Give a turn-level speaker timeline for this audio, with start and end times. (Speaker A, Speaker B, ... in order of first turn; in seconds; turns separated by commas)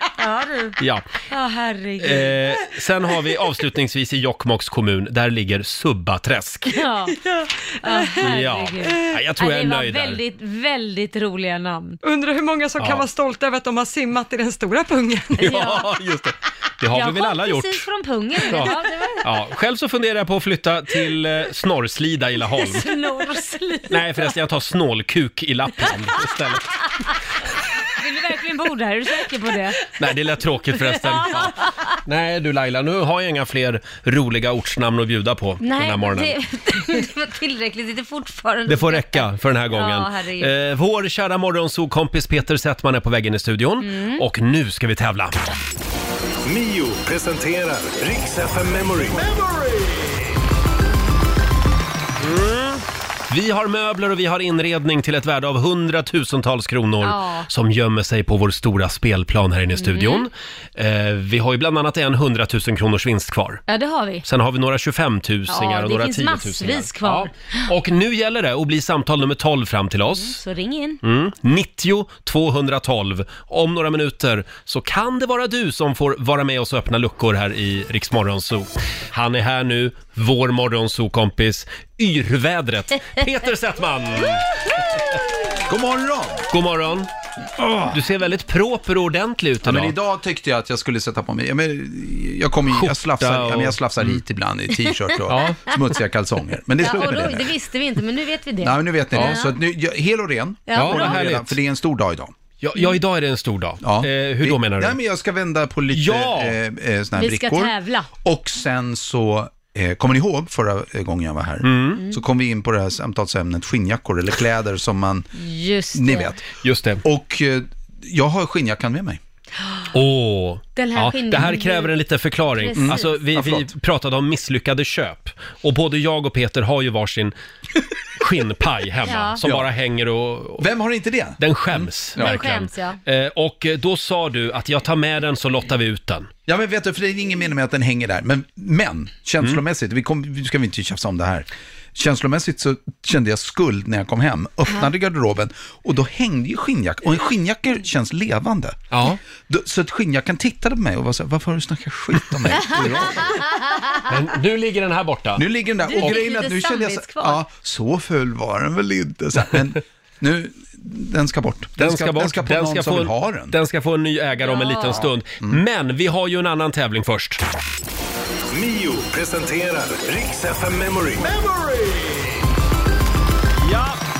Speaker A: 0.2-0.8, Speaker B: 0.8-1.1, Speaker A: 1.3-2.4, Speaker B: 2.0-6.8, Speaker A: 6.7-7.2, Speaker C: 7.1-8.3, Speaker A: 7.8-12.0, Speaker B: 8.2-10.2, Speaker C: 12.0-15.6, Speaker B: 12.8-13.1, Speaker B: 15.4-17.8, Speaker A: 15.4-15.9, Speaker A: 16.9-19.3, Speaker B: 18.4-22.9, Speaker A: 22.6-24.2, Speaker B: 23.9-26.7, Speaker A: 28.0-29.9, Speaker B: 30.0-36.3, Speaker A: 31.0-31.9, Speaker A: 35.6-40.5, Speaker B: 38.7-45.5, Speaker A: 43.8-44.2, Speaker D: 46.4-49.4, Speaker B: 52.2-63.6, Speaker A: 57.0-57.5, Speaker A: 59.8-60.3, Speaker A: 63.7-64.2, Speaker B: 64.2-70.4, Speaker A: 65.5-67.7, Speaker A: 70.2-71.0, Speaker B: 71.0-84.5, Speaker E: 85.7-86.5, Speaker B: 86.5-87.1, Speaker B: 87.6-90.0, Speaker E: 89.6-97.5, Speaker B: 92.7-94.2, Speaker B: 95.3-95.6, Speaker A: 96.8-99.6, Speaker E: 98.6-102.3, Speaker B: 99.1-99.4, Speaker A: 100.7-101.3, Speaker B: 100.8-101.6, Speaker B: 102.6-105.0, Speaker E: 103.8-115.3, Speaker B: 105.9-106.6, Speaker A: 107.2-108.1, Speaker B: 111.6-112.0, Speaker A: 115.3-116.4, Speaker E: 115.9-116.4, Speaker B: 116.6-117.0, Speaker E: 117.0-119.2, Speaker B: 119.9-127.3, Speaker A: 120.8-121.9, Speaker A: 122.6-123.1, Speaker E: 122.8-123.7, Speaker B: 128.2-130.7, Speaker A: 129.1-129.4, Speaker E: 129.4-129.7, Speaker E: 130.6-132.4, Speaker B: 131.4-136.3, Speaker A: 132.2-133.0, Speaker E: 136.5-148.8, Speaker B: 148.9-149.2, Speaker E: 149.4-153.5, Speaker A: 152.6-154.0, Speaker B: 154.1-155.4, Speaker E: 155.4-163.6, Speaker A: 155.8-157.4, Speaker B: 161.8-167.4, Speaker A: 164.4-165.1, Speaker D: 168.5-171.3, Speaker B: 173.6-174.0